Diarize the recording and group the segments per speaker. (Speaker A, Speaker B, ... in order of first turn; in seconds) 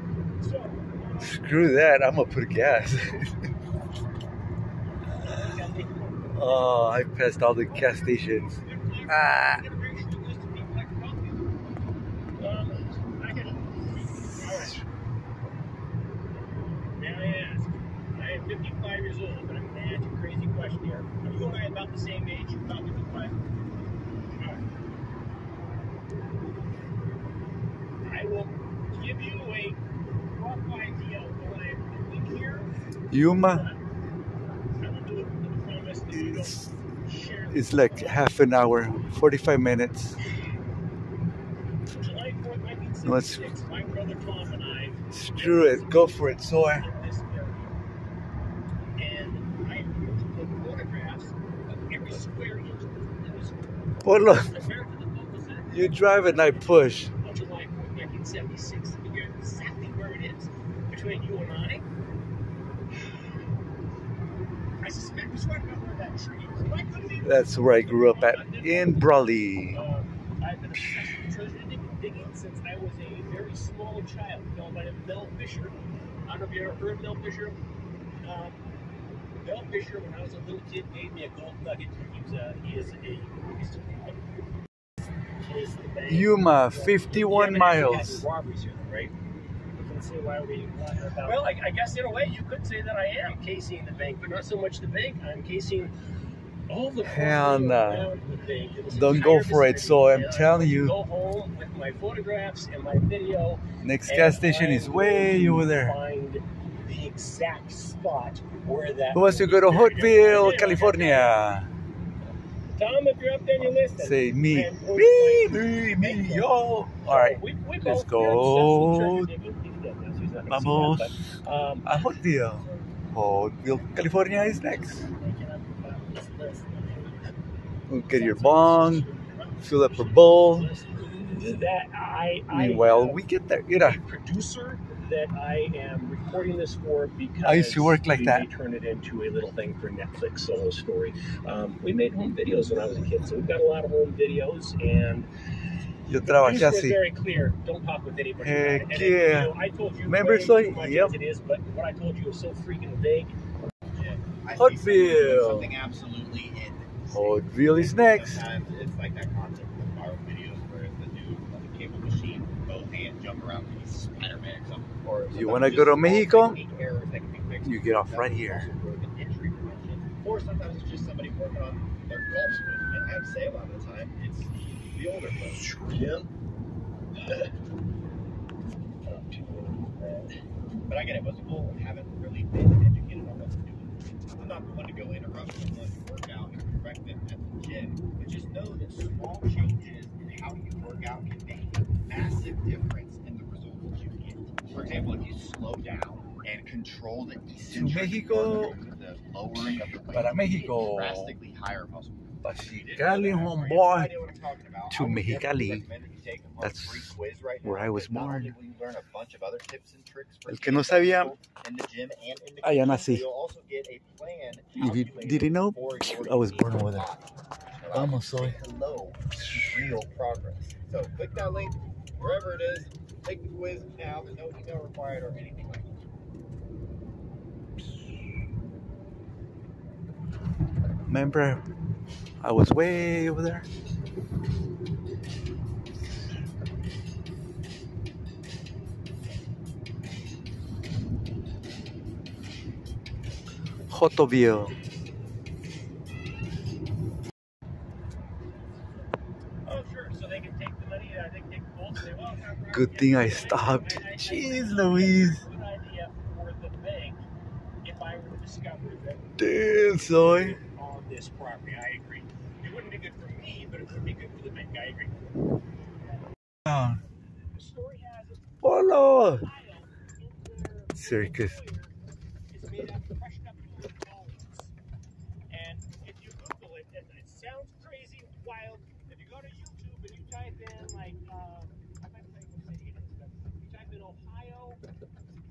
Speaker A: 0.4-1.6, 5.0-11.5, 12.4-14.8, 16.9-23.4, 24.3-24.6, 28.0-32.7, 33.3-33.8, 34.8-38.3, 41.9-47.8, 49.0-53.8, 54.3-61.9, 64.8-77.6, 78.2-78.6, 79.4-84.2, 85.4-89.1, 89.7-95.9, 96.7-111.4, 112.7-121.9, 124.3-127.3, 128.1-133.2, 133.8-145.3, 146.2-153.3, 175.5-176.3, 179.1-180.2, 249.6-257.2, 257.8-265.2, 267.5-271.9, 272.5-274.7, 275.5-284.8
Speaker B: 1.2-3.4, 6.3-8.5, 9.1-9.6, 33.1-33.7, 36.1-36.6, 37.5-40.2, 43.0-43.5, 45.1-46.9, 54.0-54.5, 55.7-57.1, 67.2-69.8, 86.1-88.2, 97.0-98.1, 98.9-101.0, 103.8-106.0, 109.1-111.7, 114.0-119.3, 120.5-121.1, 121.8-125.0, 127.9-129.1, 129.6-130.7, 132.5-134.0, 137.4-138.5, 146.1-147.0, 148.4-149.6, 150.1-151.2, 154.5-155.7, 157.1-158.4, 165.3-166.6, 167.6-168.7, 197.7-198.8, 200.1-201.4, 202.4-204.1, 204.9-205.9, 206.6-207.1, 207.6-208.5, 210.5-211.3, 212.6-213.3, 214.7-217.1, 217.9-218.6, 219.3-220.0, 231.1-231.6, 232.4-233.7, 243.9-244.8, 252.7-255.4, 259.4-260.6, 266.7-267.0, 268.6-269.5, 271.0-271.6
Speaker C: 153.9-175.8, 180.9-226.0